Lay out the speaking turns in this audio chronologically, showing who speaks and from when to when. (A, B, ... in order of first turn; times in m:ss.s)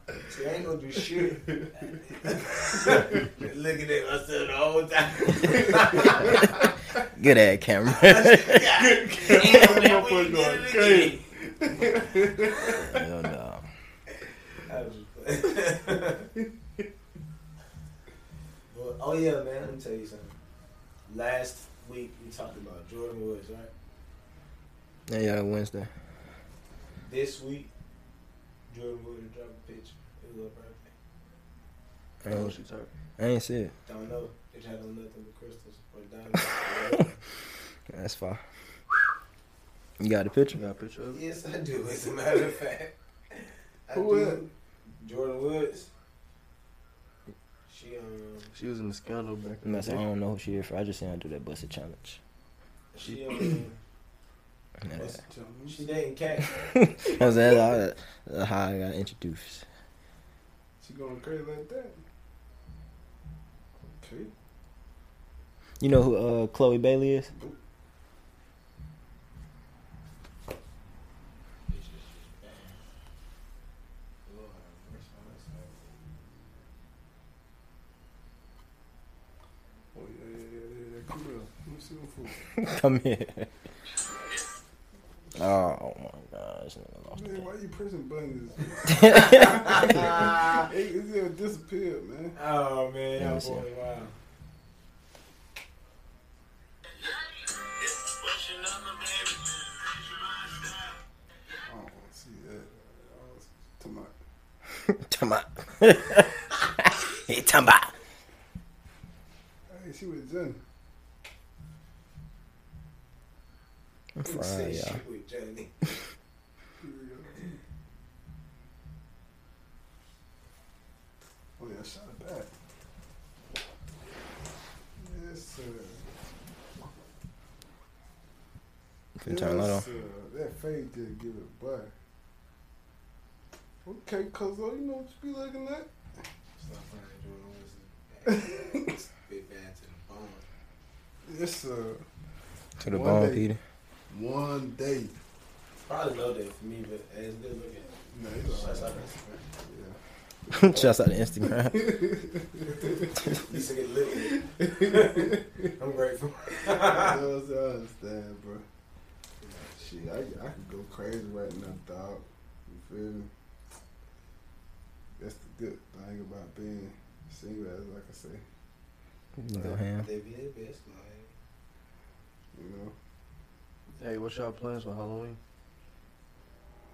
0:00.2-0:06.7 A
0:02.7-0:03.0 B
0:07.0-0:08.7 C
0:07.9-0:11.2 A
0:08.8-0:12.9 B
0:12.6-0:13.6 C
0:14.7-0:16.3 A
0:18.7-0:20.4 A
0:21.1-0:23.7 A
0:25.1-0:25.9 C
0:27.0-0:27.7 A
0:28.7-0:30.9 A
0:32.2-0:32.6 C
0:32.2-0:32.9 D
0:33.2-0:33.7 C
0:33.8-0:37.2 A
0:37.9-0:38.4 C
0:40.0-0:40.6 C
0:40.5-0:41.2 D
0:41.1-0:44.5 A
0:43.9-0:44.5 B
0:45.0-0:45.9 A
0:47.7-0:48.5 A
0:48.5-0:50.0 D
0:49.6-0:52.2 C
0:52.9-0:53.8 A
0:54.9-0:56.7 A
0:55.0-0:55.8 B
0:56.6-0:59.6 C
1:00.8-1:02.0 B
1:03.8-1:04.3 B
1:05.8-1:07.3 C
1:11.7-1:12.8 A
1:14.2-1:16.0 A
1:19.9-1:22.4 B
1:22.6-1:23.5 C
1:25.4-1:27.4 C
1:27.1-1:32.4 B
1:28.8-1:30.1 C
1:29.0-1:30.7 A
1:32.3-1:34.1 A
1:33.2-1:33.6 C
1:38.0-1:39.3 C
1:41.6-1:44.1 B
1:44.9-1:47.9 C
1:49.7-1:50.6 B
1:54.2-1:55.0 C
1:54.2-1:56.0 A
1:56.8-1:57.5 B
2:01.6-2:02.5 B
2:05.0-2:06.1 B
2:09.2-2:09.8 C
2:09.2-2:11.9 B
2:13.8-2:15.9 B
2:16.6-2:20.4 A
2:18.3-2:18.9 B
2:21.2-2:22.0 B
2:22.8-2:23.6 C
2:22.8-2:23.5 B
2:24.1-2:25.1 B
2:25.8-2:29.4 A
2:28.1-2:30.0 B
2:30.5-2:32.0 C
2:30.5-2:30.8 B
2:31.4-2:33.1 B
2:32.7-2:37.2 A
2:34.3-2:35.4 B
2:36.8-2:38.6 B
2:39.4-2:40.0 A
2:39.8-2:43.3 B
2:45.2-2:48.4 B
2:49.4-2:50.1 C
2:49.6-2:51.3 A
2:52.5-2:52.9 B
2:54.0-2:55.4 D